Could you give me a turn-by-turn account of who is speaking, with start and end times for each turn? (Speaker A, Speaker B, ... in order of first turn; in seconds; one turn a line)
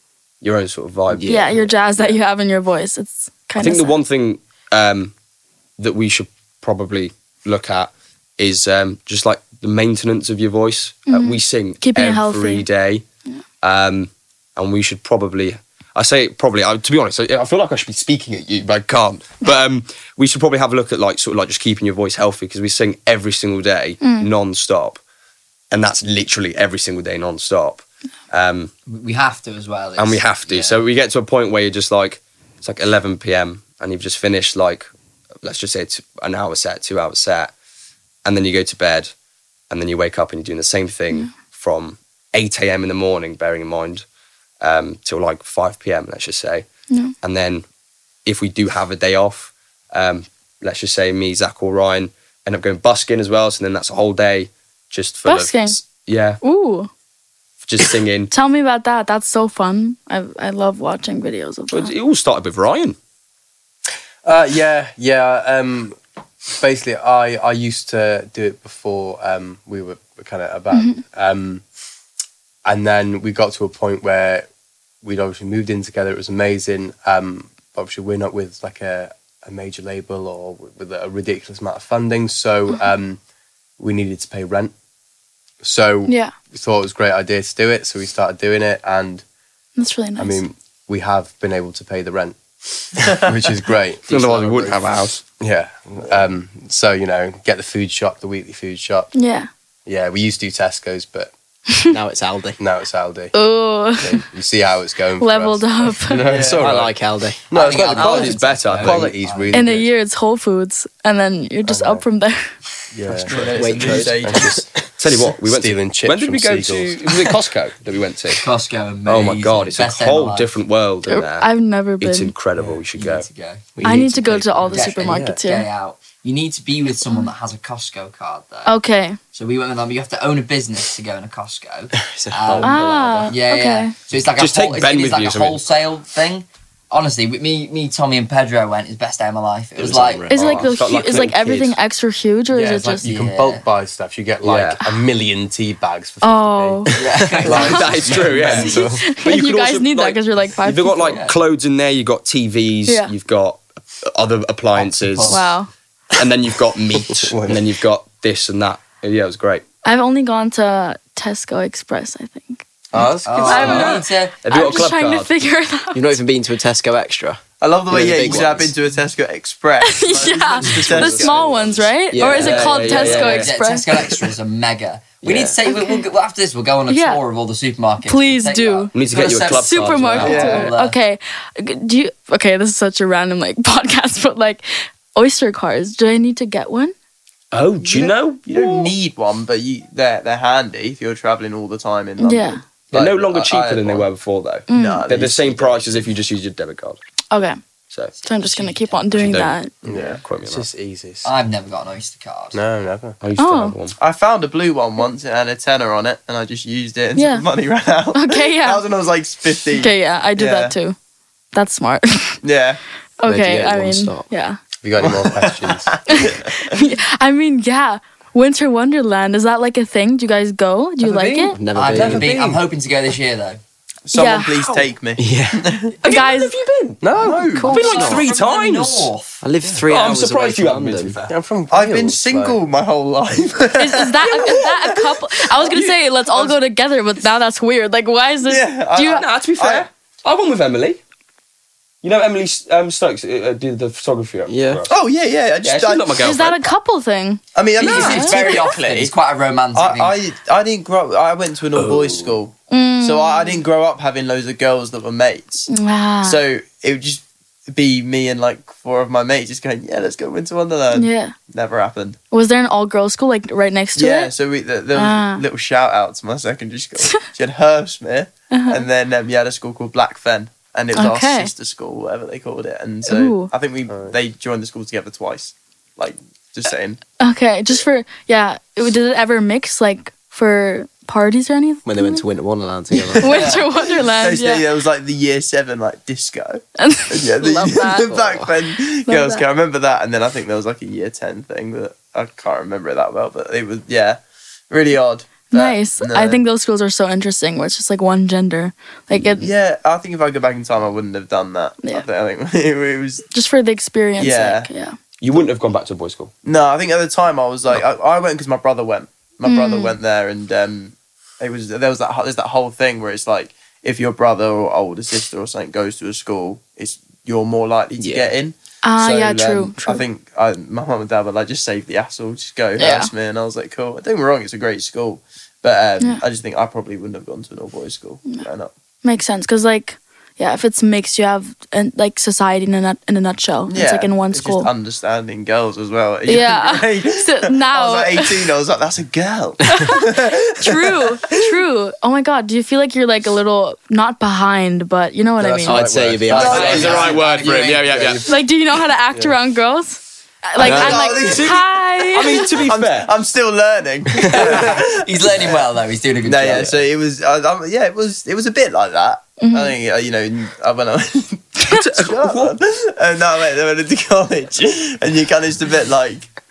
Speaker A: 0.4-2.2
Speaker B: 1.1-1.6
Speaker C: 1.3-4.0
Speaker A: 3.6-5.1
Speaker A: 5.8-13.1
Speaker C: 11.1-12.7
Speaker A: 13.6-25.0
Speaker C: 24.0-24.3
Speaker A: 25.7-28.7
Speaker D: 28.9-30.8
Speaker A: 30.0-34.9
Speaker A: 35.4-37.5
Speaker A: 38.2-39.1
Speaker A: 39.7-44.0
Speaker A: 44.6-46.7
Speaker C: 46.9-47.1
Speaker A: 47.2-47.6
Speaker A: 48.2-56.4
Speaker C: 55.2-55.8
Speaker C: 56.4-56.9
Speaker A: 57.6-58.3
Speaker C: 58.3-61.9
Speaker A: 61.7-63.0
Speaker E: 64.2-66.0
Speaker E: 66.5-71.6
Speaker C: 70.7-71.0
Speaker E: 72.7-74.5
Speaker E: 75.0-83.2
Speaker E: 83.8-84.7
Speaker E: 85.6-89.2
Speaker C: 86.1-86.3
Speaker C: 89.8-90.4
Speaker E: 90.2-92.4
Speaker E: 93.0-94.8
Speaker A: 94.1-95.2
Speaker E: 95.4-99.1
Speaker C: 99.1-99.5
Speaker E: 99.9-101.3
Speaker B: 101.9-102.6
Speaker E: 102.6-103.4
Speaker C: 103.3-104.2
Speaker E: 103.9-106.9
Speaker C: 105.2-106.2
Speaker F: 106.2-106.8
Speaker B: 106.2-107.5
Speaker E: 107.5-109.9
Speaker D: 107.5-109.6
Speaker A: 107.7-109.2
Speaker C: 109.5-112.5
Speaker E: 111.7-112.0
Speaker E: 112.9-114.6
Speaker F: 113.3-114.7
Speaker D: 113.3-113.6
Speaker B: 113.5-114.7
Speaker A: 115.0-118.4
Speaker E: 115.4-117.1
Speaker D: 118.3-120.5
Speaker A: 119.1-123.3
Speaker C: 121.1-122.3
Speaker D: 122.9-123.7
Speaker B: 123.8-124.6
Speaker C: 123.8-125.7
Speaker D: 124.7-128.7
Speaker E: 124.7-125.4
Speaker C: 128.7-129.2
Speaker D: 129.3-140.3
Speaker B: 132.0-132.7
Speaker C: 132.6-133.9
Speaker A: 134.4-135.6
Speaker B: 139.8-140.7
Speaker C: 140.3-143.1
Speaker A: 140.3-141.8
Speaker E: 142.5-149.0
Speaker D: 143.0-143.7
Speaker A: 144.4-144.8
Speaker C: 146.2-147.0
Speaker D: 146.9-148.6
Speaker A: 147.5-155.5
Speaker C: 147.5-147.9
Speaker C: 148.5-151.2
Speaker D: 151.1-151.4
Speaker C: 152.9-153.1
Speaker D: 154.8-155.5
Speaker C: 155.3-155.7
Speaker A: 156.2-159.6
Speaker E: 157.2-157.7
Speaker C: 159.8-162.6
Speaker E: 162.9-164.0
Speaker D: 163.2-164.7
Speaker C: 163.4-166.2
Speaker A: 163.5-165.3
Speaker B: 165.9-168.7
Speaker F: 167.6-171.8
Speaker C: 169.8-173.9
Speaker E: 170.8-171.8
Speaker B: 172.1-172.6
Speaker D: 172.2-181.0
Speaker A: 172.3-173.5
Speaker B: 175.2-175.6
Speaker C: 175.7-176.0
Speaker C: 176.9-177.2
Speaker C: 178.1-178.9
Speaker A: 178.9-180.6
Speaker C: 179.4-186.9
Speaker F: 180.2-180.7
Speaker A: 187.5-188.9
Speaker F: 187.8-194.1
Speaker C: 192.2-192.6
Speaker A: 192.9-197.0
Speaker C: 194.7-195.1
Speaker F: 194.7-196.1
Speaker C: 197.3-197.6
Speaker D: 198.2-199.5
Speaker C: 198.2-199.7
Speaker A: 199.2-199.6
Speaker F: 199.8-200.2
Speaker E: 199.8-201.3
Speaker A: 200.2-200.7
Speaker D: 201.2-202.6
Speaker E: 202.5-203.2
Speaker A: 203.2-204.0
Speaker C: 203.4-203.8
Speaker F: 204.0-210.8
Speaker C: 207.2-207.5
Speaker C: 208.2-208.8
Speaker C: 209.7-211.0
Speaker C: 211.5-212.4
Speaker F: 212.4-212.8
Speaker C: 213.2-214.6
Speaker B: 213.3-214.3
Speaker E: 214.8-216.0
Speaker F: 215.0-216.7
Speaker C: 216.1-221.6
Speaker A: 221.0-222.6
Speaker B: 221.5-222.3
Speaker D: 221.8-223.6
Speaker E: 221.9-222.2
Speaker F: 224.1-226.2
Speaker C: 224.1-224.6
Speaker A: 224.6-224.8
Speaker B: 225.2-225.7
Speaker C: 226.0-226.6
Speaker A: 226.0-227.1
Speaker E: 227.0-227.5
Speaker F: 227.2-227.9
Speaker C: 227.5-228.2
Speaker A: 227.6-229.1
Speaker B: 227.8-228.3
Speaker D: 227.8-229.4
Speaker B: 229.4-231.2
Speaker A: 229.8-231.3
Speaker E: 231.3-232.6
Speaker F: 231.7-236.6
Speaker C: 233.8-239.3
Speaker F: 238.5-239.9
Speaker A: 239.1-241.0
Speaker A: 242.0-245.0
Speaker B: 244.5-244.9
Speaker F: 244.9-246.2
Speaker A: 245.6-246.7
Speaker C: 246.2-248.4
Speaker F: 247.6-249.1
Speaker D: 247.8-250.2
Speaker A: 247.9-248.6
Speaker F: 249.7-255.7
Speaker C: 252.7-253.6
Speaker C: 255.7-256.4
Speaker F: 256.2-262.2
Speaker C: 260.9-261.4
Speaker C: 262.3-264.3
Speaker F: 264.0-277.0
Speaker C: 264.9-265.4
Speaker C: 268.5-268.8
Speaker C: 270.9-271.5
Speaker C: 273.1-273.5
Speaker E: 273.9-274.1
Speaker C: 277.2-282.2
Speaker B: 281.9-283.5
Speaker C: 283.2-284.6
Speaker D: 283.2-283.7
Speaker F: 283.5-296.4
Speaker C: 286.8-288.1
Speaker B: 288.1-288.5
Speaker C: 288.9-289.5
Speaker C: 295.5-299.5
Speaker F: 299.4-303.3
Speaker C: 303.3-305.0
Speaker F: 304.2-304.7
Speaker A: 305.2-306.3
Speaker F: 306.4-328.7
Speaker C: 309.5-310.0
Speaker B: 318.0-318.3
Speaker C: 318.8-320.0
Speaker C: 322.8-323.1
Speaker C: 329.0-334.7
Speaker F: 333.7-341.3
Speaker C: 336.3-338.5
Speaker C: 339.7-345.8
Speaker E: 345.4-347.1
Speaker B: 345.6-347.1
Speaker D: 346.3-348.1
Speaker F: 346.3-347.7
Speaker A: 346.6-348.2
Speaker C: 348.3-352.6
Speaker F: 350.6-351.7
Speaker B: 350.6-351.2
Speaker A: 350.8-353.1
Speaker F: 352.4-355.6
Speaker D: 354.3-356.8
Speaker F: 356.2-366.3
Speaker C: 359.4-359.8
Speaker A: 361.7-362.6